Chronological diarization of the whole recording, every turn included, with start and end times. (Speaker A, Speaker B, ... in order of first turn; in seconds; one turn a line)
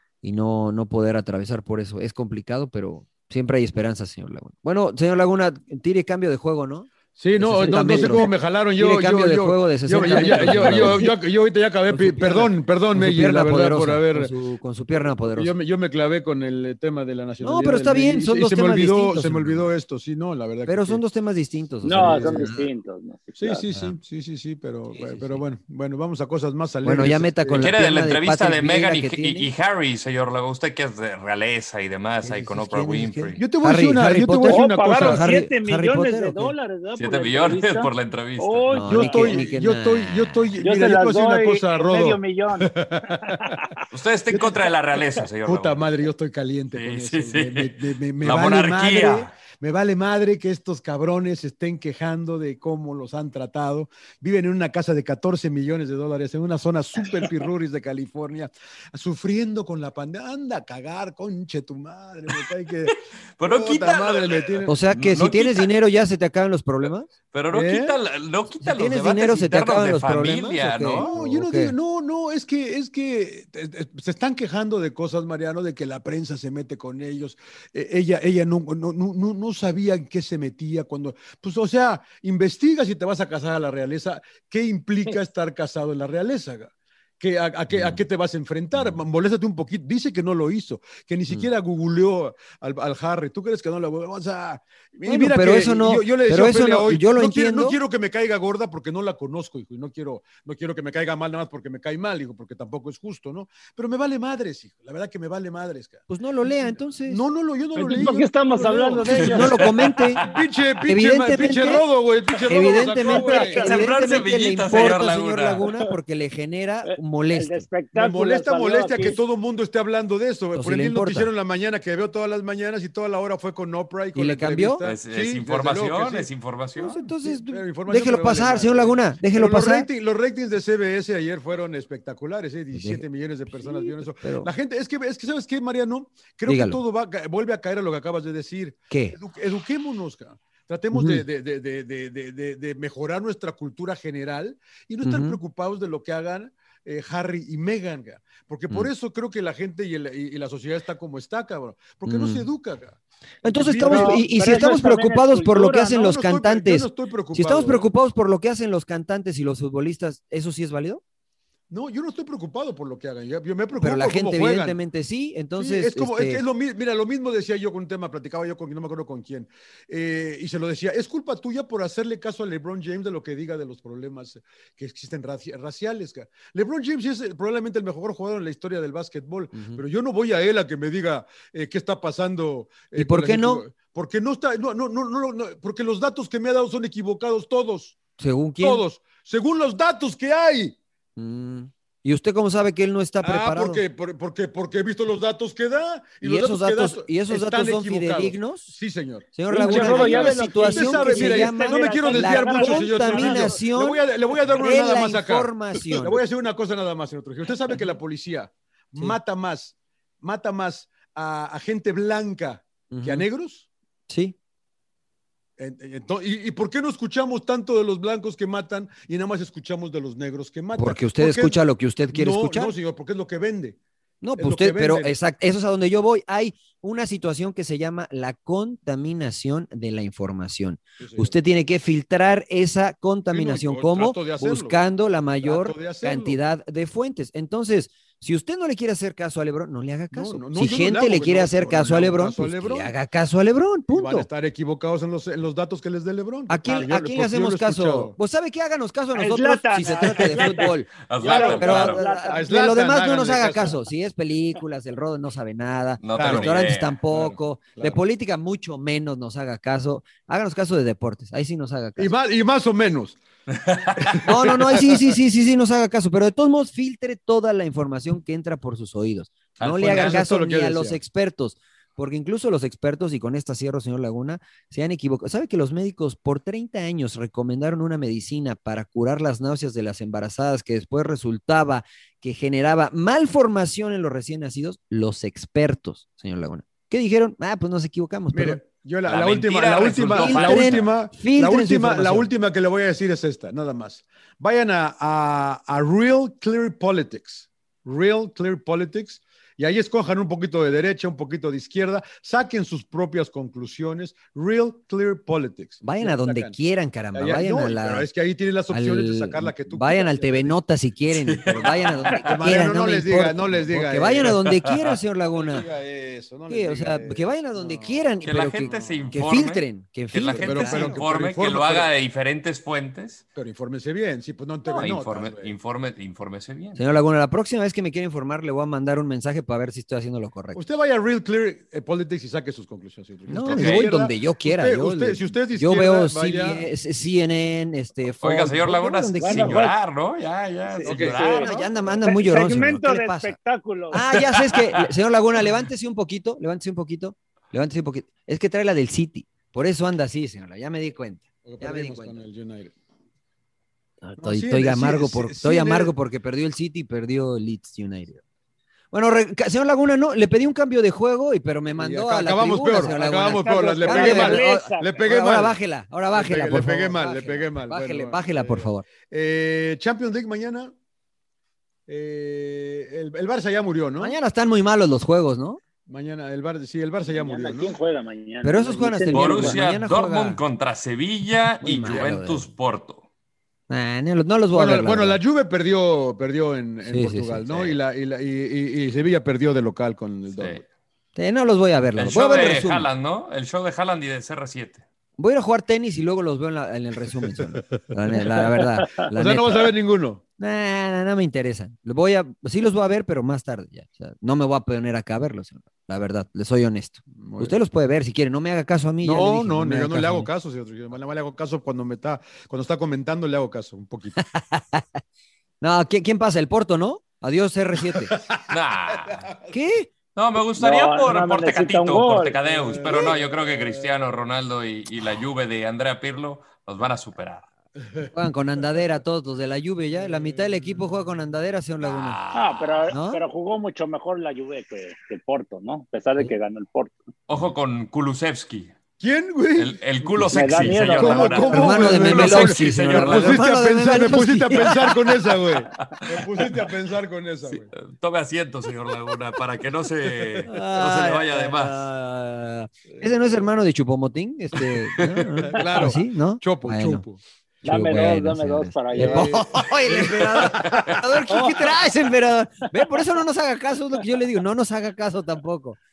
Speaker A: 0.2-11.1
Speaker B: 7.2-14.3
Speaker C: 10.2-10.8
Speaker A: 11.9-15.5
Speaker B: 15.2-21.0
Speaker A: 17.4-19.7
Speaker A: 20.7-22.7
Speaker C: 21.8-23.6
Speaker B: 21.9-22.4
Speaker B: 23.4-27.7
Speaker A: 23.7-24.0
Speaker A: 24.9-25.4
Speaker A: 26.8-29.5
Speaker D: 27.6-33.4
Speaker A: 32.2-36.5
Speaker B: 33.4-35.3
Speaker C: 34.5-39.4
Speaker D: 37.0-38.8
Speaker A: 38.7-40.6
Speaker B: 38.9-43.4
Speaker C: 40.6-43.7
Speaker D: 43.9-45.9
Speaker B: 44.3-44.6
Speaker B: 45.4-64.8
Speaker D: 46.7-49.4
Speaker D: 62.9-65.7
Speaker A: 64.7-67.1
Speaker D: 67.3-71.1
Speaker B: 67.5-68.0
Speaker A: 68.6-71.8
Speaker B: 71.0-113.7
Speaker A: 87.7-88.0
Speaker A: 88.8-89.0
Speaker A: 95.1-97.8
Speaker A: 106.1-107.2
Speaker C: 107.8-109.6
Speaker A: 109.0-110.2
Speaker D: 109.5-110.2
Speaker A: 110.9-111.9
Speaker A: 112.5-117.7
Speaker C: 113.0-113.8
Speaker D: 113.6-115.6
Speaker C: 116.9-119.2
Speaker B: 117.9-126.3
Speaker A: 120.6-121.3
Speaker A: 124.2-124.8
Speaker D: 124.8-127.0
Speaker A: 126.8-129.9
Speaker B: 127.2-154.8
Speaker A: 132.7-134.5
Speaker A: 136.5-136.8
Speaker A: 138.9-139.2
Speaker A: 140.9-141.2
Speaker A: 145.0-145.4
Speaker A: 152.1-152.5
Speaker A: 153.4-161.0
Speaker C: 153.8-156.0
Speaker B: 155.8-157.9
Speaker B: 161.7-164.8
Speaker A: 163.8-166.4
Speaker B: 165.6-188.0
Speaker A: 179.5-179.8
Speaker A: 182.9-183.7
Speaker A: 188.2-188.8
Speaker B: 188.6-190.8
Speaker A: 191.2-193.8
Speaker B: 193.2-213.7
Speaker A: 196.2-198.7
Speaker A: 199.3-206.2
Speaker C: 199.5-203.6
Speaker A: 212.9-213.3
Speaker A: 214.1-214.4
Speaker B: 215.6-221.6
Speaker A: 220.8-222.8
Speaker B: 222.1-223.8
Speaker A: 224.2-244.3
Speaker B: 224.4-225.1
Speaker B: 231.0-231.3
Speaker B: 233.3-234.8
Speaker B: 235.4-236.4
Speaker B: 240.1-242.9
Speaker B: 243.9-248.2
Speaker A: 246.5-250.9
Speaker C: 249.2-252.4
Speaker D: 250.2-252.0
Speaker B: 251.2-253.8
Speaker A: 251.5-262.1
Speaker D: 256.0-257.0
Speaker B: 256.1-258.0
Speaker B: 262.0-263.2
Speaker D: 263.5-264.2
Speaker B: 264.1-265.1
Speaker A: 264.2-288.6
Speaker D: 269.6-270.2
Speaker B: 269.6-271.0
Speaker B: 288.3-306.6
Speaker D: 289.1-290.9
Speaker A: 290.1-292.3
Speaker A: 305.8-308.1
Speaker B: 307.1-310.6
Speaker A: 308.7-315.7
Speaker D: 311.1-312.0
Speaker B: 311.6-314.4
Speaker D: 314.3-315.0
Speaker B: 315.3-319.3
Speaker A: 316.5-321.0
Speaker D: 318.2-323.2
Speaker B: 320.2-321.9
Speaker B: 323.4-325.5
Speaker D: 324.6-326.8
Speaker A: 326.8-330.6
Speaker B: 330.6-336.6
Speaker A: 333.3-339.6
Speaker D: 333.5-333.8
Speaker D: 338.2-341.6
Speaker C: 339.2-339.8
Speaker C: 340.7-344.1
Speaker B: 340.9-341.6
Speaker A: 341.1-343.4
Speaker A: 343.9-352.2
Speaker D: 344.1-344.8
Speaker B: 351.4-352.7
Speaker A: 354.0-358.2
Speaker B: 354.2-355.9
Speaker A: 358.9-368.9
Speaker B: 361.8-365.6
Speaker C: 363.2-365.0
Speaker B: 366.1-370.7
Speaker B: 371.9-374.2
Speaker A: 374.0-375.6
Speaker B: 375.9-377.8
Speaker C: 377.1-379.6
Speaker A: 378.4-380.4
Speaker D: 379.1-383.0
Speaker A: 381.6-382.5
Speaker A: 383.7-385.2
Speaker B: 384.5-390.6
Speaker A: 386.9-387.4
Speaker D: 387.5-387.8
Speaker D: 390.3-390.6
Speaker A: 391.2-392.9
Speaker D: 392.0-394.9
Speaker A: 395.2-399.7
Speaker B: 399.1-400.2
Speaker A: 400.4-410.3
Speaker B: 407.1-407.6
Speaker B: 409.0-414.2
Speaker A: 414.3-414.8
Speaker A: 415.6-418.1
Speaker B: 417.9-418.4
Speaker D: 418.5-419.3
Speaker B: 418.9-419.6
Speaker A: 419.5-419.9
Speaker D: 420.1-427.5
Speaker C: 420.6-422.4
Speaker B: 422.5-424.0
Speaker A: 428.1-432.2
Speaker B: 430.0-430.8
Speaker D: 431.8-432.9
Speaker C: 432.3-437.0
Speaker A: 432.9-433.2
Speaker D: 437.3-438.7
Speaker B: 439.0-447.7
Speaker D: 439.6-443.4
Speaker C: 440.3-441.5
Speaker A: 441.4-444.8
Speaker D: 446.1-446.5
Speaker D: 447.5-451.9
Speaker A: 450.5-457.1
Speaker B: 455.4-457.2
Speaker C: 457.6-459.4
Speaker A: 457.6-465.8
Speaker B: 457.8-458.2
Speaker B: 458.9-461.0
Speaker D: 460.6-460.9
Speaker C: 461.3-461.8